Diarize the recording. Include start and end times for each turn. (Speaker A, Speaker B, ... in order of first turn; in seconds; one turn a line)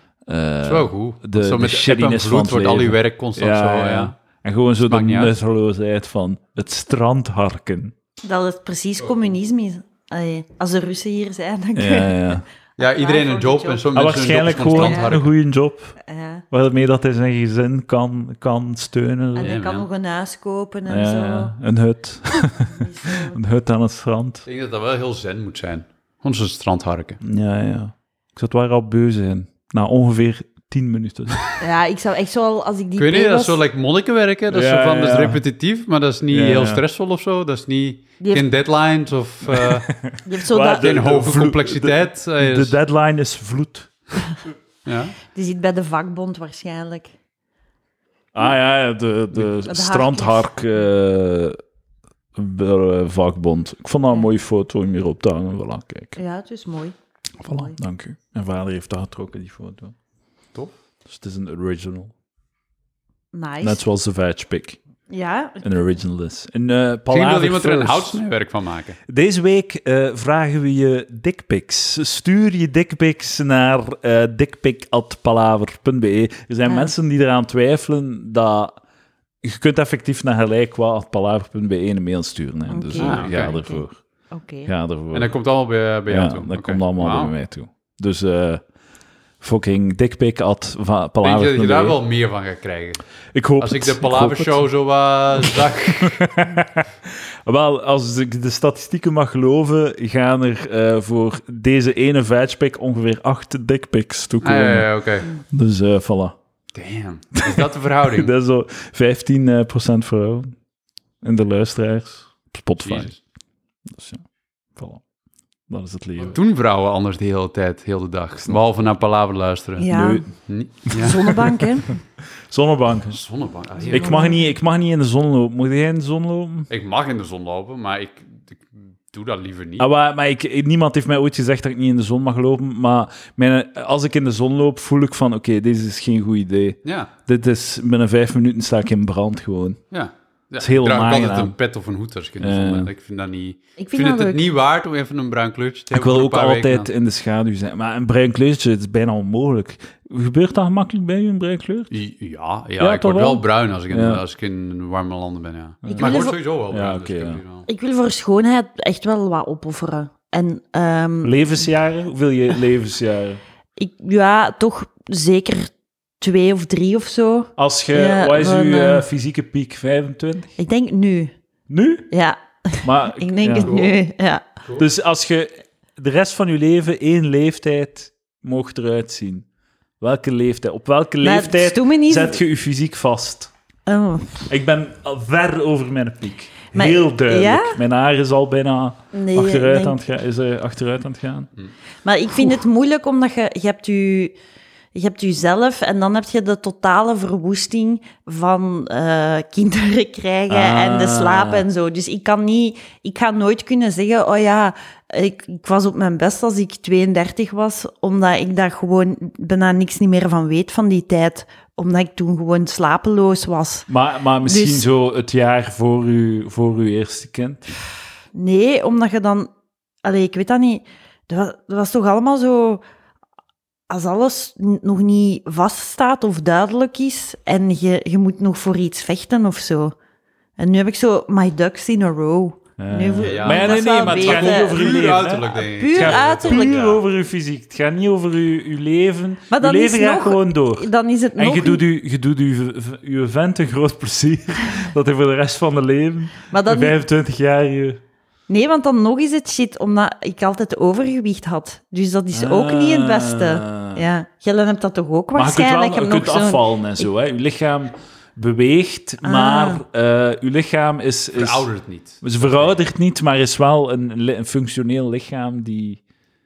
Speaker A: 0.3-7.9
Speaker B: 0.6-4.1
Speaker B: 4.8-5.3
Speaker C: 8.2-13.8
Speaker A: 11.7-12.4
Speaker B: 12.8-15.3
Speaker A: 13.9-15.9
Speaker C: 14.7-15.2
Speaker C: 16.0-16.4
Speaker A: 16.5-19.5
Speaker C: 19.4-21.5
Speaker B: 19.4-19.9
Speaker A: 20.9-24.4
Speaker C: 22.4-23.4
Speaker B: 24.4-27.2
Speaker A: 27.2-31.5
Speaker C: 31.6-33.6
Speaker B: 33.0-40.0
Speaker A: 34.5-35.4
Speaker A: 36.3-36.8
Speaker C: 38.2-38.5
Speaker A: 39.5-43.9
Speaker C: 40.2-40.9
Speaker B: 40.6-42.8
Speaker B: 44.9-45.1
Speaker C: 45.3-47.1
Speaker A: 48.3-51.6
Speaker C: 49.6-50.8
Speaker A: 52.3-56.2
Speaker C: 56.2-56.9
Speaker A: 57.4-59.9
Speaker C: 57.5-57.8
Speaker A: 61.1-62.1
Speaker C: 63.3-63.8
Speaker A: 63.6-64.8
Speaker C: 65.1-65.7
Speaker A: 65.6-68.2
Speaker B: 67.1-69.0
Speaker A: 69.1-78.8
Speaker C: 76.7-76.9
Speaker A: 79.4-84.0
Speaker C: 82.7-84.7
Speaker B: 83.0-83.5
Speaker A: 84.7-85.3
Speaker B: 85.1-87.3
Speaker A: 86.1-88.6
Speaker A: 89.4-92.0
Speaker B: 91.2-93.0
Speaker A: 93.3-94.7
Speaker B: 93.6-96.2
Speaker A: 95.4-106.3
Speaker B: 104.4-105.3
Speaker B: 106.7-108.3
Speaker A: 107.3-110.5
Speaker A: 111.2-113.1
Speaker B: 112.8-113.2
Speaker A: 113.9-114.2
Speaker A: 114.7-115.0
Speaker A: 115.7-116.4
Speaker B: 116.2-119.9
Speaker C: 119.8-120.2
Speaker A: 119.9-120.3
Speaker B: 120.5-121.5
Speaker A: 120.9-121.9
Speaker C: 120.9-121.9
Speaker A: 122.5-123.2
Speaker B: 123.1-124.3
Speaker C: 123.8-124.5
Speaker A: 123.9-126.7
Speaker B: 126.7-129.8
Speaker A: 129.8-139.8
Speaker B: 136.8-137.1
Speaker B: 139.9-146.9
Speaker A: 140.6-141.5
Speaker A: 142.4-142.9
Speaker C: 143.8-144.4
Speaker A: 145.9-151.9
Speaker B: 151.9-157.7
Speaker A: 152.8-154.2
Speaker A: 155.8-157.4
Speaker C: 155.9-156.4
Speaker C: 157.7-161.7
Speaker A: 161.2-163.4
Speaker C: 163.8-169.0
Speaker A: 167.6-170.5
Speaker C: 170.6-171.3
Speaker A: 171.7-172.1
Speaker C: 172.1-174.4
Speaker A: 172.8-173.9
Speaker B: 173.6-173.9
Speaker A: 174.8-179.4
Speaker A: 180.0-183.5
Speaker C: 181.2-182.4
Speaker C: 183.9-184.5
Speaker A: 184.5-191.5
Speaker C: 186.7-187.8
Speaker C: 189.1-190.0
Speaker C: 192.0-194.3
Speaker C: 194.9-213.9
Speaker A: 200.5-201.6
Speaker A: 213.9-217.7
Speaker C: 214.4-214.8
Speaker C: 218.3-219.5
Speaker C: 220.0-222.8
Speaker C: 223.9-229.9
Speaker C: 230.6-235.0
Speaker A: 232.8-248.0
Speaker B: 233.2-237.0
Speaker C: 235.6-236.9
Speaker C: 239.5-241.8
Speaker C: 246.5-246.9
Speaker C: 248.5-257.1
Speaker A: 252.3-254.0
Speaker A: 255.3-261.7
Speaker C: 259.2-259.8
Speaker B: 261.3-262.8
Speaker A: 262.2-266.0